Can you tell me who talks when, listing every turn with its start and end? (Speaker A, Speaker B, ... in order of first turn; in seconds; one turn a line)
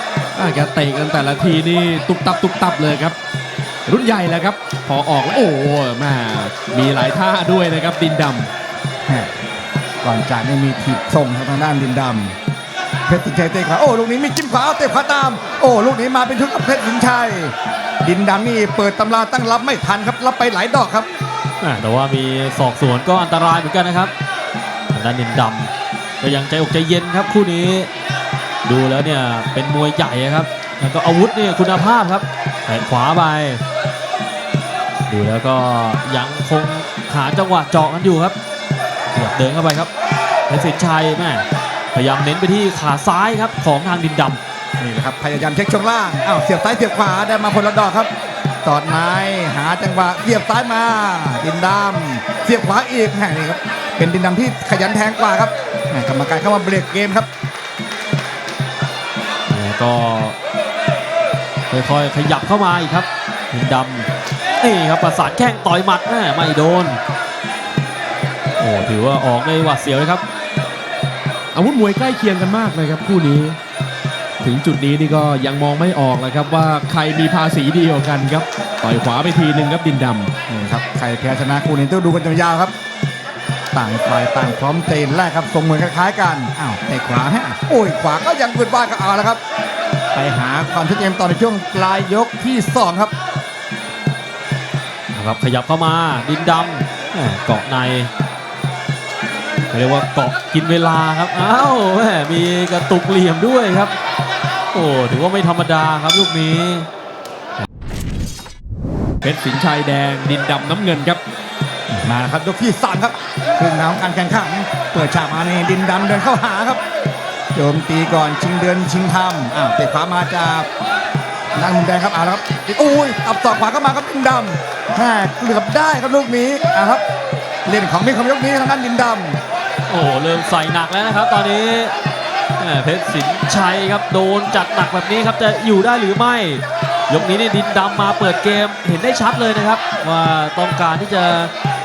Speaker A: 0.3-3.1
Speaker A: 3.9-8.5
Speaker B: 10.0-12.3
Speaker B: 13.1-21.1
Speaker C: 21.6-24.1
Speaker C: 24.9-27.9
Speaker C: 28.6-33.6
Speaker C: 35.1-38.4
Speaker C: 39.1-39.9
Speaker C: 40.5-44.4
Speaker B: 44.8-48.1
Speaker B: 48.6-57.3
Speaker C: 59.5-60.4
Speaker C: 61.7-67.0
Speaker C: 68.6-70.2
Speaker A: 71.5-73.6
Speaker A: 74.4-80.3
Speaker B: 80.5-82.7
Speaker B: 83.7-89.4
Speaker B: 90.1-93.1
Speaker C: 95.1-98.1
Speaker C: 99.7-103.9
Speaker C: 104.7-106.9
Speaker A: 109.2-111.2
Speaker B: 111.9-116.8
Speaker B: 117.5-120.7
Speaker B: 121.5-127.0
Speaker B: 127.7-129.4
Speaker C: 129.9-131.9
Speaker C: 132.6-141.5